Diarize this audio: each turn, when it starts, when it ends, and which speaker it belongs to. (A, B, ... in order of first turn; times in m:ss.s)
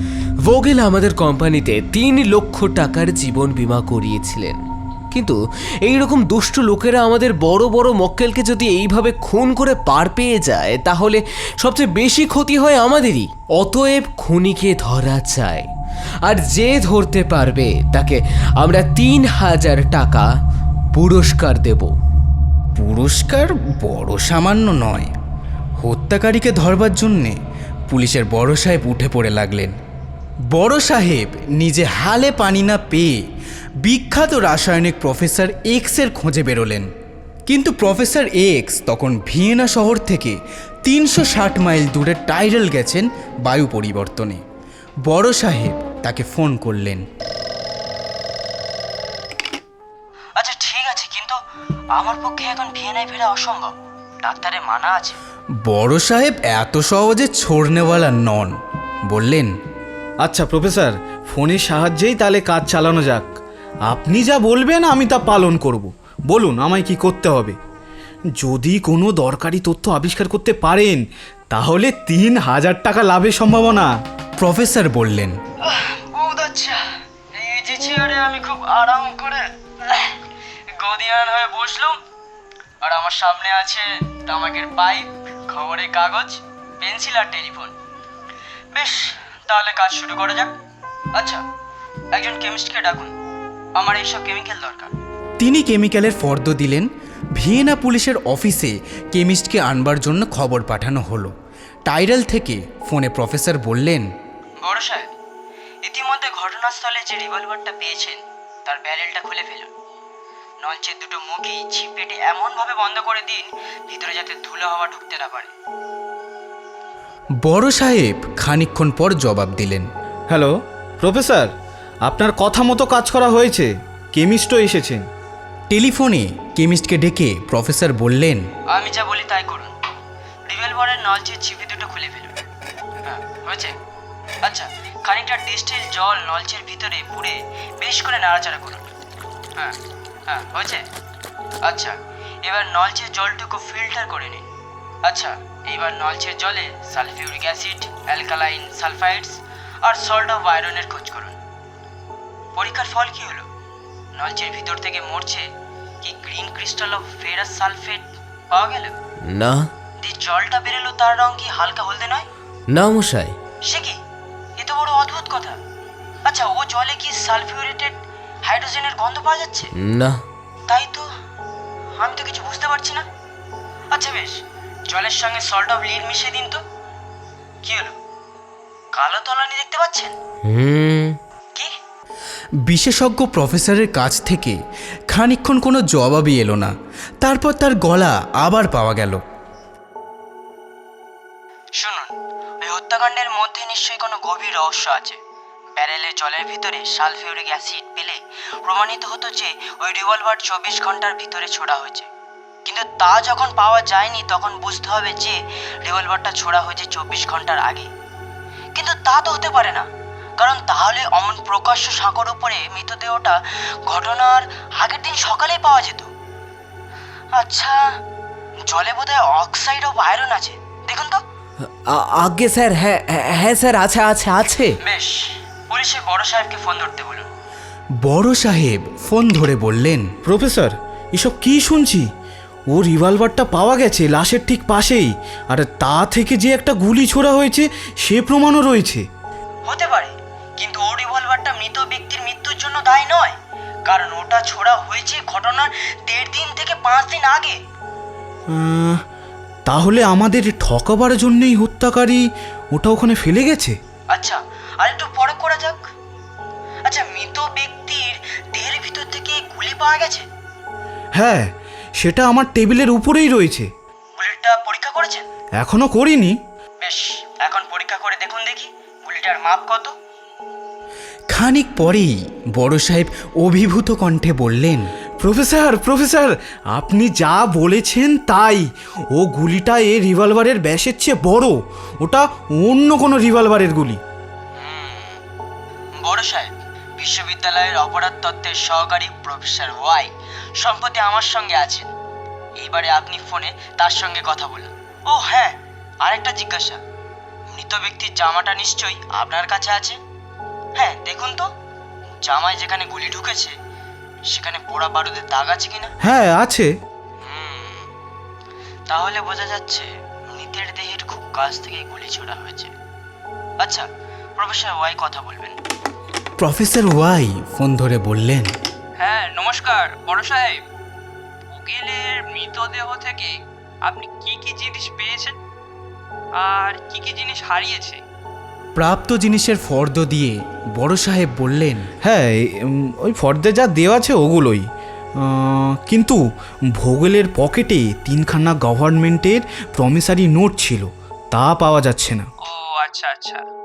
0:00.4-0:04.6 A
0:05.1-0:15.7 A
0:16.2-0:20.3 A
0:20.9-0:21.9 A
0:22.8-0:25.1 B
0:25.8-0:27.4 B
0:27.9-0:29.7 B
0:30.5-0:33.2 B
0:33.8-0:36.9 B
0:37.5-0:44.4 B
0:45.0-0:47.0 B
0:50.4-0:51.4 C
0:51.9-0:55.2 C
0:55.6-0:58.5 B
0:59.1-0:59.5 B
1:00.2-1:03.3 D
1:03.9-1:07.6 D
1:08.4-1:13.9 D
1:14.4-1:15.4 B
1:15.7-1:16.8 C
1:17.3-1:20.2 C
1:20.7-1:22.0 C
1:22.8-1:27.7 C
1:28.7-1:30.5 C
1:31.1-1:31.4 C
1:32.1-1:33.1 C
1:33.7-1:34.9 C
1:35.4-1:41.3 B
1:41.8-1:44.1 B
1:44.6-1:45.1 C
1:45.8-1:49.7 C
1:50.6-1:55.5 C
1:57.4-1:59.8 B
2:00.3-2:01.5 D
2:02.0-2:05.1 D
2:05.7-2:08.4 B
2:08.7-2:09.7 C
2:10.5-2:12.3 C
2:13.0-2:13.8 C
2:14.4-2:18.8 C
2:19.6-2:20.8 C
2:21.6-2:24.5 C
2:25.0-2:31.4 C
2:32.5-2:33.5 C
2:34.1-2:35.5 C
2:36.0-2:38.9 C
2:39.2-2:39.7 A
2:40.0-2:42.3 C
2:42.7-2:43.3 A
2:43.6-2:44.0 C
2:44.6-2:45.6 C
2:46.2-2:49.7 C
2:49.7-2:50.2 A
2:50.7-2:51.1 C
2:52.0-2:53.0 C
2:53.9-2:56.6 C
2:57.6-2:58.0 C
2:58.9-3:00.1 C
3:00.4-3:01.2 A
3:02.6-3:04.6 B
3:05.1-3:09.2 B
3:11.8-3:15.2 C
3:15.8-3:22.1 C
3:22.6-3:27.9 C
3:28.7-3:29.9 C
3:30.4-3:36.1 C
3:37.3-3:37.8 C
3:38.7-3:41.2 C
3:41.9-3:44.8 A
3:44.8-3:47.3 C
3:48.0-3:50.1 B
3:50.2-3:52.0 D
3:52.7-3:59.0 D
3:59.6-4:07.6 C
4:08.5-4:09.0 D
4:09.6-4:12.2 D
4:12.7-4:13.8 D
4:14.1-4:15.8 C
4:16.8-4:20.2 C
4:21.1-4:21.4 D
4:22.0-4:23.7 D
4:24.2-4:25.2 C
4:25.6-4:26.4 D
4:26.8-4:29.9 C
4:31.3-4:34.8 B
4:35.2-4:44.0 D
4:44.6-4:45.2 C
4:46.0-4:51.9 C
4:52.6-4:56.8 C
4:57.5-5:00.0 C
5:00.8-5:01.5 C
5:02.2-5:03.5 C
5:04.3-5:05.9 C
5:06.0-5:06.7 D
5:07.2-5:07.9 C
5:08.9-5:12.7 C
5:14.4-5:15.6 C
5:16.4-5:18.5 B
5:19.0-5:20.6 E
5:21.5-5:23.3 E
5:23.8-5:25.4 E
5:26.4-5:28.0 E
5:28.8-5:31.8 B
5:32.0-5:34.6 D
5:35.2-5:36.2 D
5:36.8-5:42.3 D
5:42.4-5:43.4 E